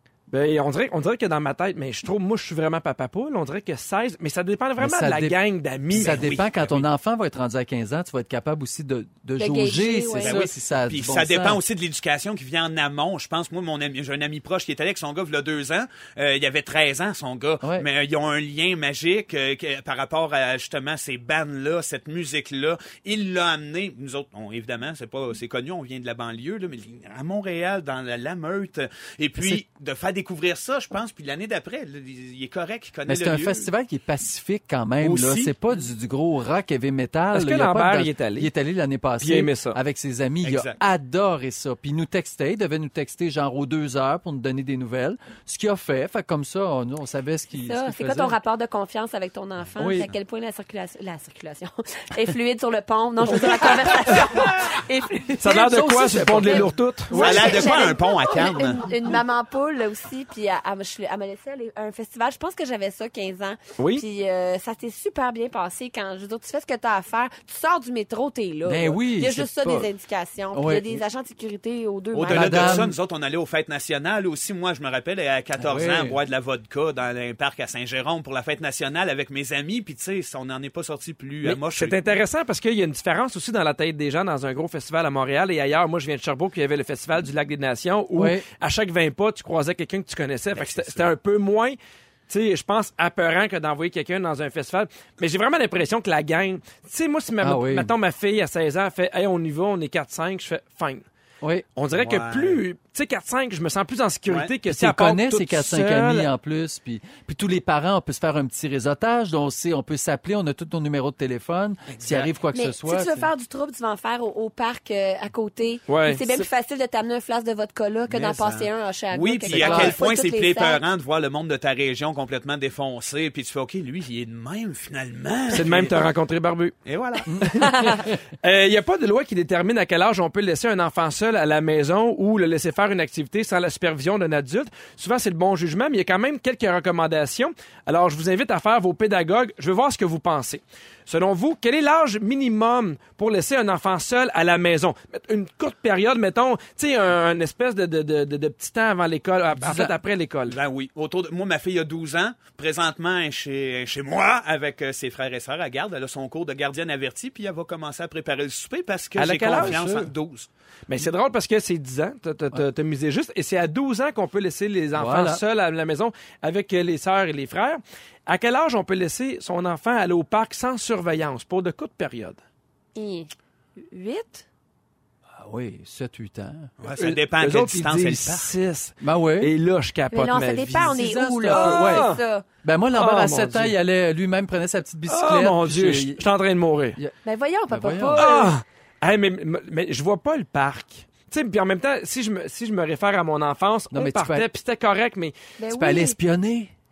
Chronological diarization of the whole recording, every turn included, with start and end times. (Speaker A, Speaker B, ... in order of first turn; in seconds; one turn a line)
Speaker A: 0.3-6.4
Speaker B: 4.8-5.3
Speaker C: 5.9-6.8
Speaker B: 5.9-11.6
Speaker D: 9.4-10.4
Speaker C: 10.2-33.7
Speaker B: 33.1-48.4
Speaker C: 35.0-35.5
Speaker A: 37.3-38.5
Speaker A: 39.2-39.8
Speaker C: 40.4-40.8
Speaker D: 47.6-55.8
Speaker B: 49.8-50.1
Speaker B: 53.3-53.9
Speaker A: 55.4-57.6
Speaker B: 55.4-57.7
Speaker D: 56.4-72.9
Speaker C: 57.1-58.8
Speaker A: 63.8-64.0
Speaker B: 68.6-69.9
Speaker B: 70.5-71.0
Speaker C: 72.1-82.0
Speaker B: 72.3-73.0
Speaker B: 75.6-76.2
Speaker A: 81.4-91.8
Speaker B: 88.1-88.4
Speaker C: 90.5-91.1
Speaker A: 92.3-101.0
Speaker B: 97.4-97.9
Speaker A: 101.8-106.3
Speaker C: 101.9-102.6
Speaker B: 104.7-113.3
Speaker C: 111.9-112.3
Speaker D: 112.5-120.8
Speaker A: 115.9-116.2
Speaker C: 118.1-125.9
Speaker B: 119.5-120.0
Speaker A: 125.5-126.8
Speaker C: 126.8-127.4
Speaker A: 127.4-150.6
Speaker D: 127.5-128.0
Speaker B: 149.6-149.9
Speaker C: 150.5-160.5
Speaker A: 159.2-159.8
Speaker B: 159.5-160.1
Speaker A: 160.9-172.4
Speaker B: 164.9-165.4
Speaker D: 173.0-173.3
Speaker D: 173.8-174.4
Speaker B: 175.3-176.7
Speaker C: 176.8-178.5
Speaker A: 177.0-180.9
Speaker B: 179.0-179.5
Speaker D: 180.1-182.4
Speaker B: 180.7-186.2
Speaker A: 181.5-182.2
Speaker A: 182.9-183.7
Speaker A: 185.1-187.0
Speaker D: 187.2-188.5
Speaker B: 187.7-188.3
Speaker A: 188.2-195.3
Speaker B: 193.9-194.5
Speaker D: 195.6-196.2
Speaker B: 195.7-196.7